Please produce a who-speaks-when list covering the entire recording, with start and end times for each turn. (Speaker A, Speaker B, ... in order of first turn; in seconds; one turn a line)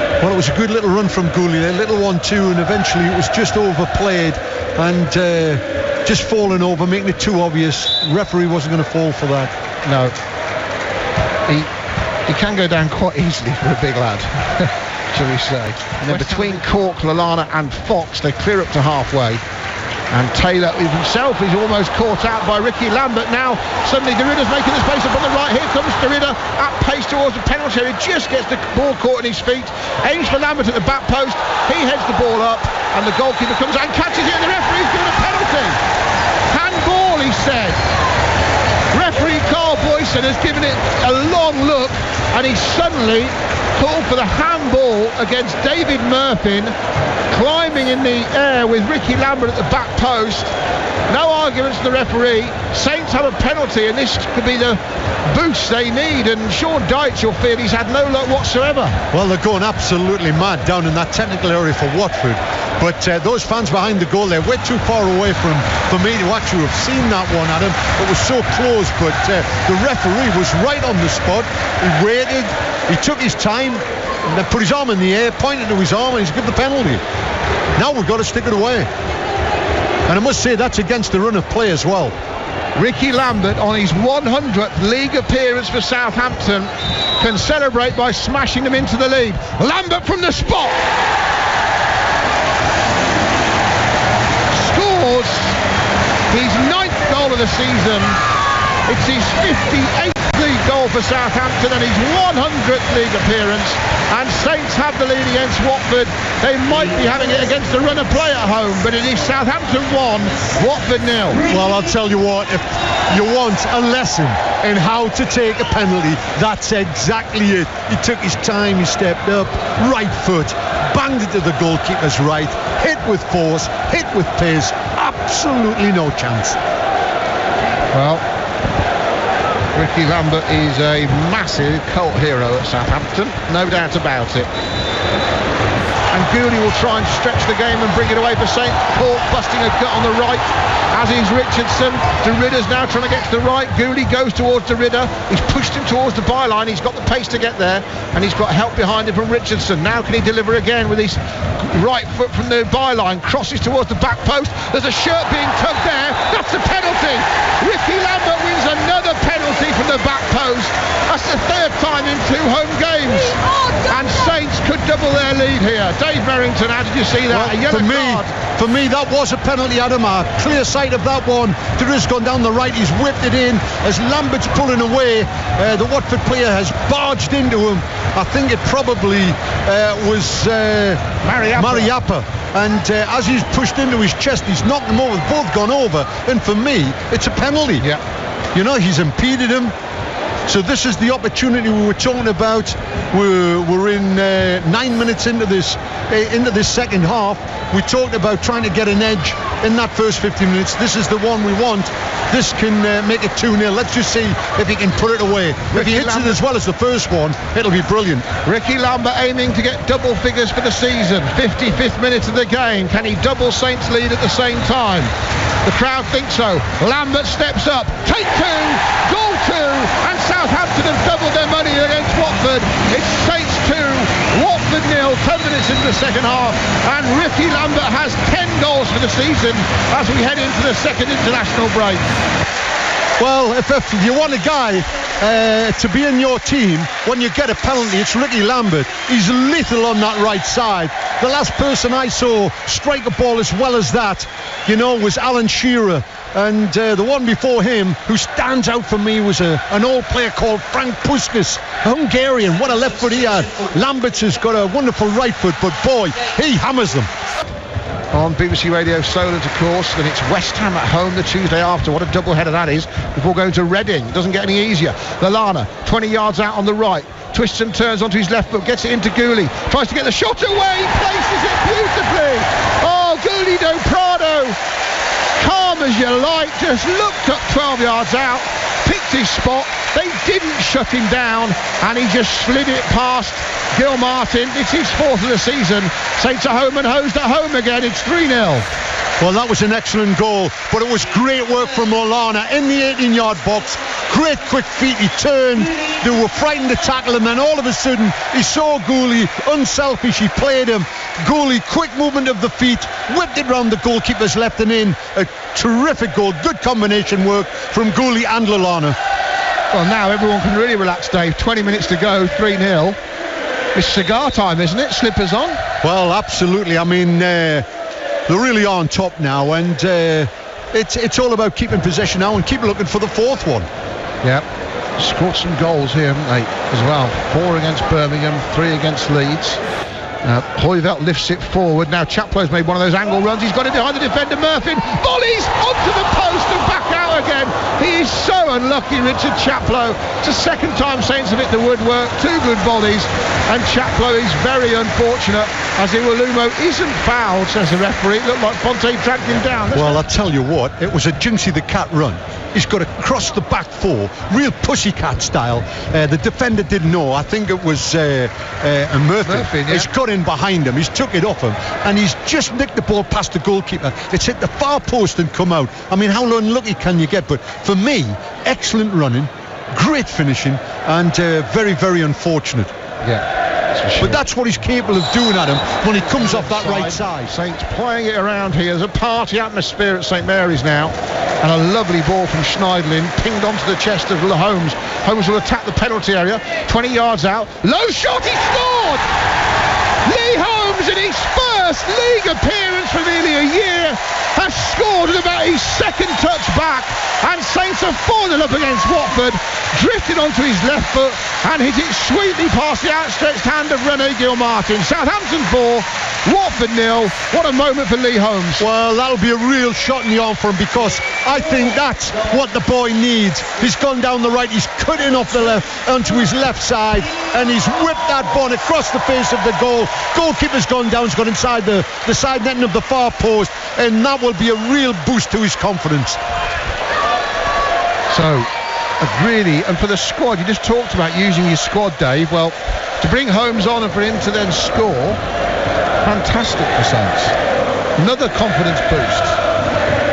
Speaker A: 0.2-9.5
Speaker B: 9.8-10.2
Speaker B: 12.3-19.4
Speaker B: 20.1-35.8
Speaker B: 36.5-37.8
Speaker B: 38.9-46.7
Speaker B: 47.3-50.5
Speaker B: 51.1-59.0
Speaker A: 59.1-77.0
Speaker A: 77.8-78.9
Speaker A: 80.1-82.1
Speaker B: 82.8-90.8
Speaker B: 94.5-95.6
Speaker B: 96.3-98.2
Speaker B: 98.9-111.4
Speaker A: 111.5-126.6
Speaker B: 127.9-128.2
Speaker B: 129.7-134.5
Speaker B: 136.1-168.3
Speaker A: 167.3-181.0
Speaker B: 181.2-181.9
Speaker A: 181.6-187.9
Speaker A: 188.5-189.7
Speaker A: 190.5-208.3
Speaker B: 205.7-206.4
Speaker B: 208.4-215.1
Speaker B: 215.6-232.0
Speaker A: 233.2-257.1
Speaker B: 258.1-274.6
Speaker B: 275.4-288.7
Speaker A: 289.2-309.0
Speaker B: 309.7-313.0
Speaker B: 313.7-315.6
Speaker A: 315.8-317.6
Speaker A: 318.3-323.7
Speaker B: 325.0-329.6
Speaker B: 330.2-350.0
Speaker A: 349.7-372.7
Speaker B: 359.2-359.9
Speaker B: 373.0-374.2
Speaker A: 374.0-377.3
Speaker B: 376.0-389.0
Speaker B: 390.0-408.7
Speaker A: 408.6-426.2
Speaker B: 428.1-428.5
Speaker B: 429.0-435.2
Speaker B: 436.0-437.4
Speaker B: 438.0-439.4